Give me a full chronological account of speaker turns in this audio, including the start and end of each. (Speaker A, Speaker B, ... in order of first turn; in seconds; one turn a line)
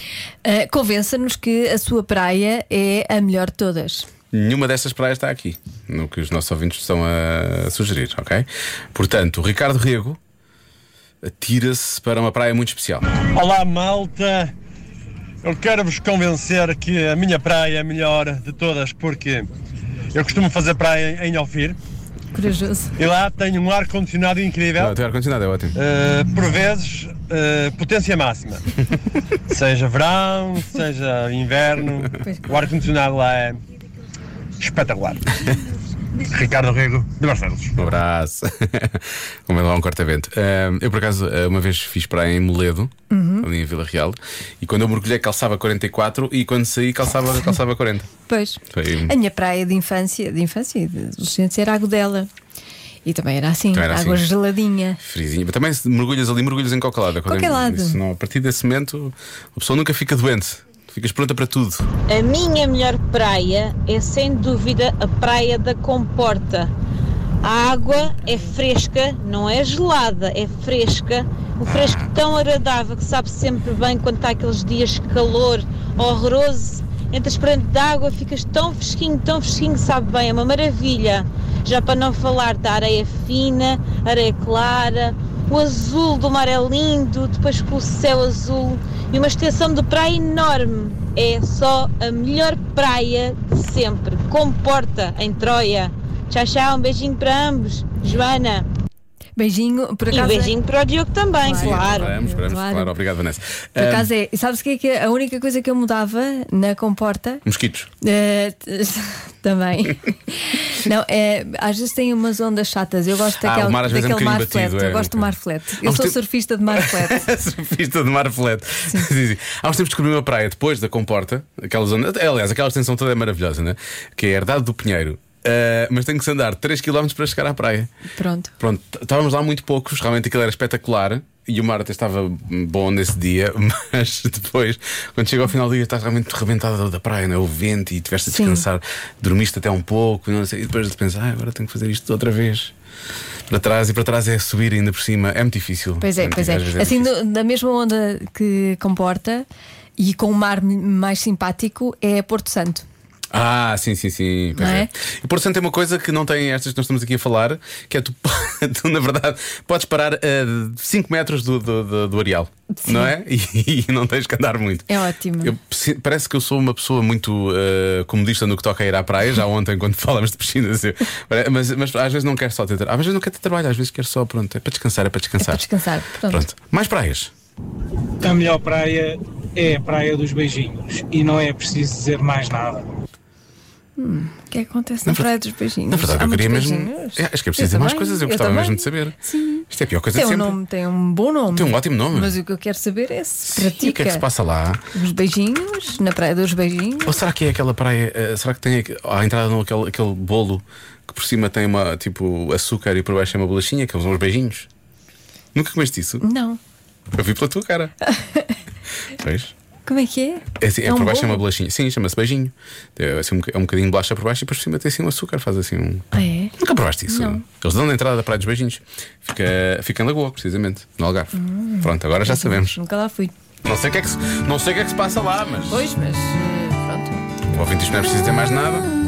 Speaker A: 0.4-4.1
Speaker B: 4.3-10.2
Speaker B: 11.2-13.1
Speaker C: 13.2-14.5
Speaker C: 15.4-19.5
Speaker C: 20.1-21.8
Speaker A: 22.3-22.9
Speaker C: 23.0-24.9
Speaker B: 24.8-25.8
Speaker C: 25.8-28.6
Speaker C: 29.5-33.6
Speaker C: 34.6-35.4
Speaker C: 36.2-37.8
Speaker B: 37.8-48.1
Speaker A: 43.1-43.5
Speaker A: 48.3-52.3
Speaker B: 48.7-49.1
Speaker A: 53.0-55.0
Speaker B: 53.7-54.3
Speaker B: 55.0-61.9
Speaker A: 57.3-58.0
Speaker D: 62.1-66.7
Speaker D: 67.4-98.7
Speaker A: 68.1-68.5
Speaker B: 71.7-72.1
Speaker A: 99.4-100.5
Speaker D: 100.1-102.1
Speaker A: 101.4-102.9
Speaker B: 101.5-104.1
Speaker A: 103.8-107.4
Speaker B: 107.5-107.9
Speaker A: 108.0-117.3
Speaker B: 113.4-116.2
Speaker B: 116.7-127.9
Speaker A: 128.2-128.5
Speaker B: 128.6-142.7
Speaker A: 138.3-138.7
Speaker B: 143.5-147.1
Speaker A: 146.0-149.5
Speaker A: 150.0-152.8
Speaker B: 153.3-164.9
Speaker A: 154.6-154.9
Speaker A: 162.7-163.1
Speaker A: 164.9-165.6
Speaker B: 165.4-175.7
Speaker A: 175.4-176.4
Speaker B: 176.3-177.3
Speaker E: 178.2-182.9
Speaker A: 184.0-194.2
Speaker B: 185.9-189.2
Speaker B: 189.7-190.6
Speaker B: 191.5-192.3
Speaker B: 193.5-194.8
Speaker A: 194.9-197.2
Speaker B: 197.0-204.7
Speaker B: 205.6-206.2
Speaker A: 206.2-206.6
Speaker B: 207.1-207.9
Speaker A: 208.0-208.6
Speaker B: 209.2-209.5
Speaker A: 209.9-211.4
Speaker B: 210.6-216.1
Speaker A: 216.1-216.6
Speaker B: 216.6-222.8
Speaker A: 217.1-217.4
Speaker A: 221.3-223.3
Speaker B: 223.6-225.9
Speaker A: 225.7-227.2
Speaker B: 227.5-228.9